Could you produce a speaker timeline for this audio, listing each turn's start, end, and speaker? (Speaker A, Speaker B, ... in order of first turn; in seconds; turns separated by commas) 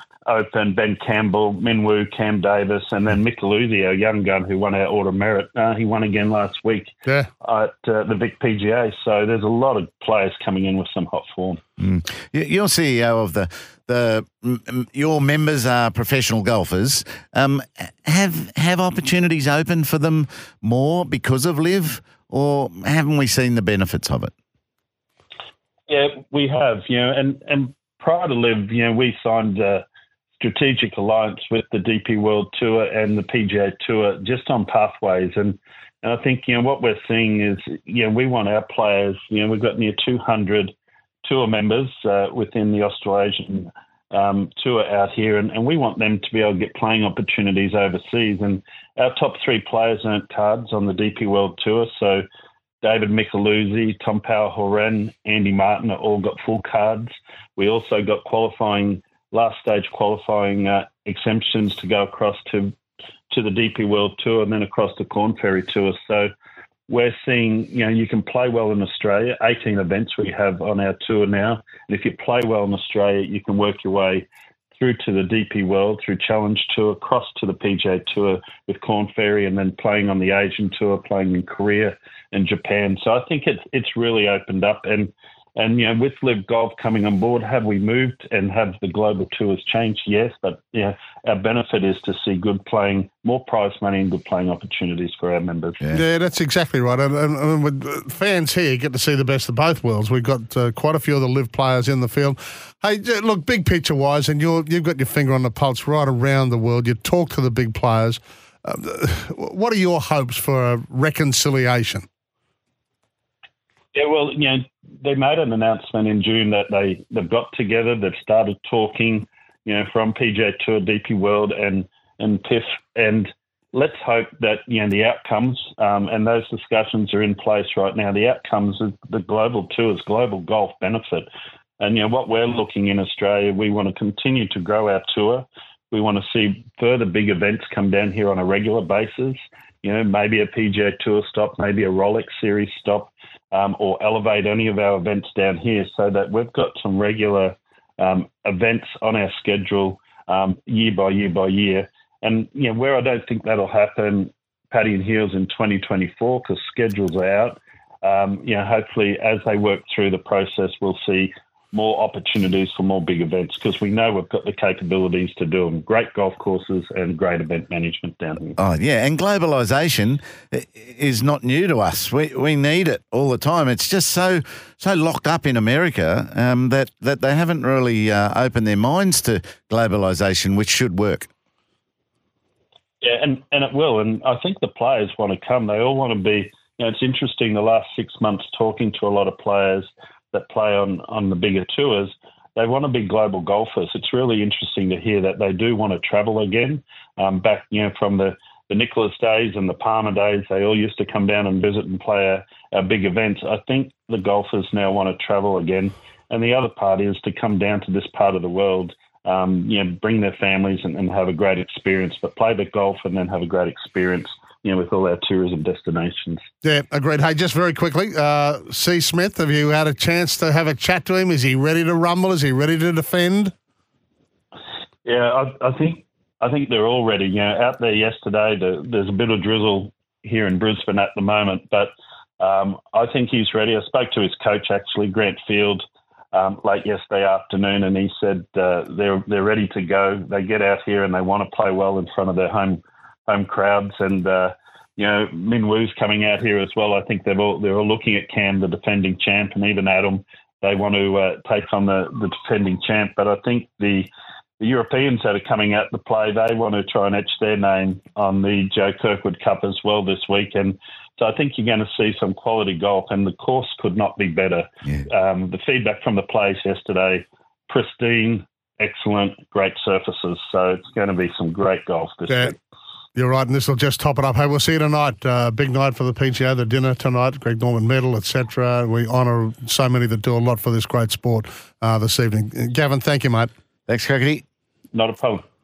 Speaker A: 0.2-11.6, Speaker B: 11.8-24.3, Speaker A: 25.9-29.8, Speaker A: 30.4-40.7, Speaker A: 41.2-52.2, Speaker A: 52.8-62.7, Speaker A: 63.3-66.3, Speaker A: 66.9-74.2, Speaker A: 74.8-95.8, Speaker C: 95.9-112.0, Speaker A: 113.9-131.3, Speaker A: 131.8-168.6, Speaker B: 168.6-181.3, Speaker A: 183.0-216.4, Speaker C: 216.6-223.5, Speaker A: 225.0-254.1, Speaker A: 254.6-272.5, Speaker C: 273.1-283.5, Speaker B: 283.9-284.4, Speaker A: 284.9-285.4